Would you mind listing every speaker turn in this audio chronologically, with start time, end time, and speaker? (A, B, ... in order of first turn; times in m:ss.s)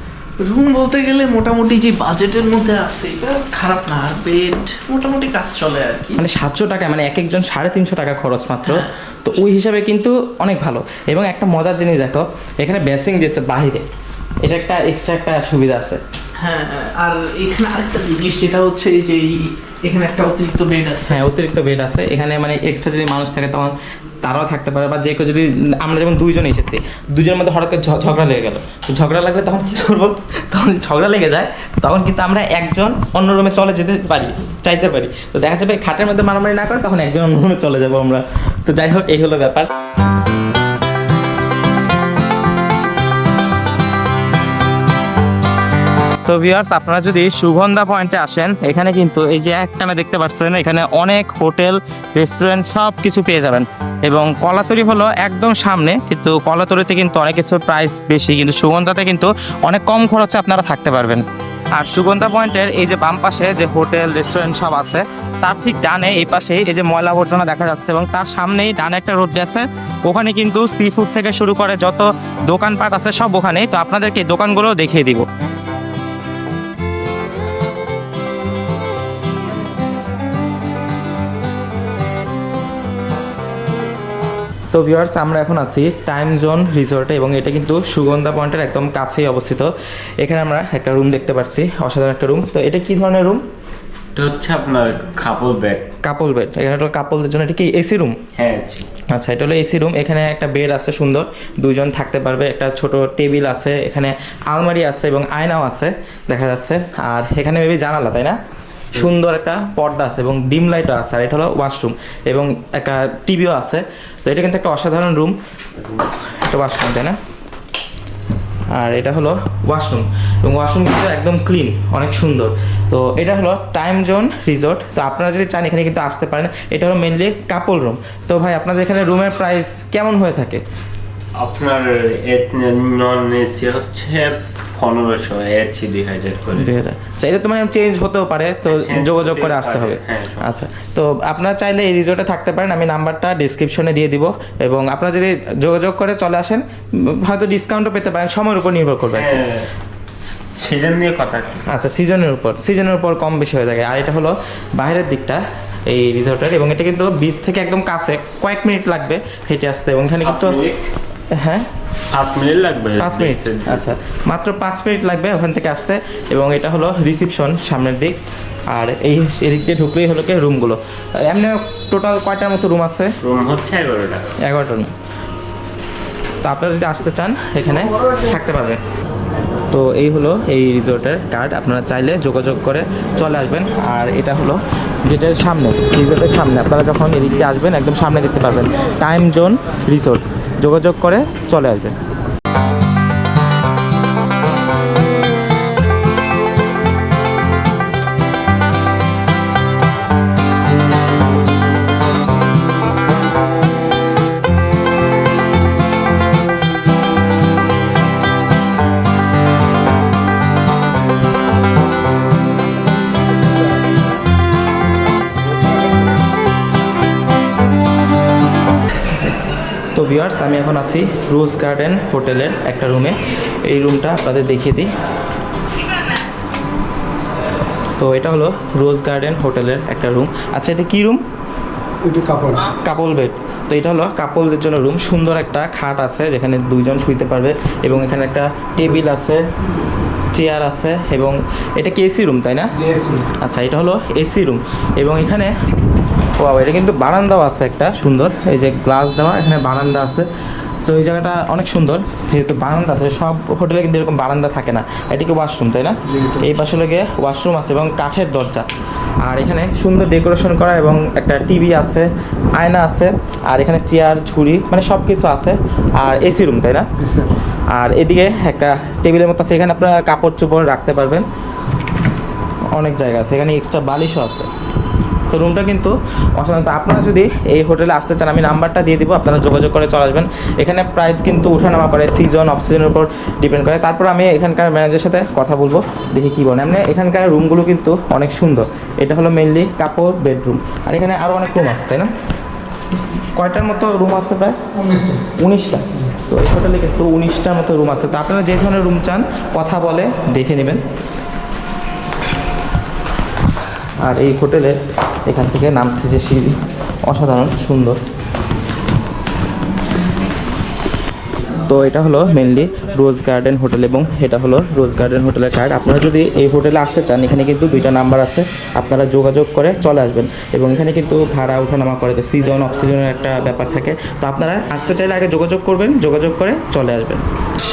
0:00.4-0:06.2 A
0:06.1-0:13.8 B
0:14.4-0:16.0 B
0:16.4-0:21.2 A
0:21.0-0:39.7 B
0:46.2-1:01.2 B
1:01.7-1:15.2 B
1:24.7-1:33.4 B
1:34.2-1:35.9 C
1:36.0-1:38.2 B
1:38.4-1:38.9 C
1:39.1-1:48.4 B
1:48.9-1:55.3 B
1:56.2-1:57.2 B
1:58.7-2:10.6 B
2:11.4-2:16.7 C
2:16.5-2:29.4 B
2:18.7-2:20.5 C
2:29.1-2:31.6 C
2:31.6-2:40.6 B
2:40.2-2:40.9 C
2:41.3-2:41.6 B
2:42.1-2:43.9 C
2:43.0-2:48.2 B
2:48.7-2:53.1 B
2:53.2-2:54.3 C
2:54.4-2:54.9 B
2:56.4-2:58.8 B
2:59.7-3:12.0 B
3:39.9-3:44.9 B
3:48.0-3:51.2 B
3:52.0-3:52.6 A
3:52.7-3:59.4 B
4:00.3-4:02.7 B
4:02.8-4:03.2 A
4:03.4-4:05.5 B
4:06.4-4:10.2 B
4:10.8-4:18.6 B
4:19.2-4:26.9 B
4:27.0-4:27.3 A
4:27.7-4:31.2 B
4:32.7-4:34.5 B
4:35.3-4:52.1 B
4:53.3-4:54.6 B
4:54.8-4:55.2 A
4:55.3-5:00.8 B
5:04.0-5:08.0 B
5:11.6-5:27.2 B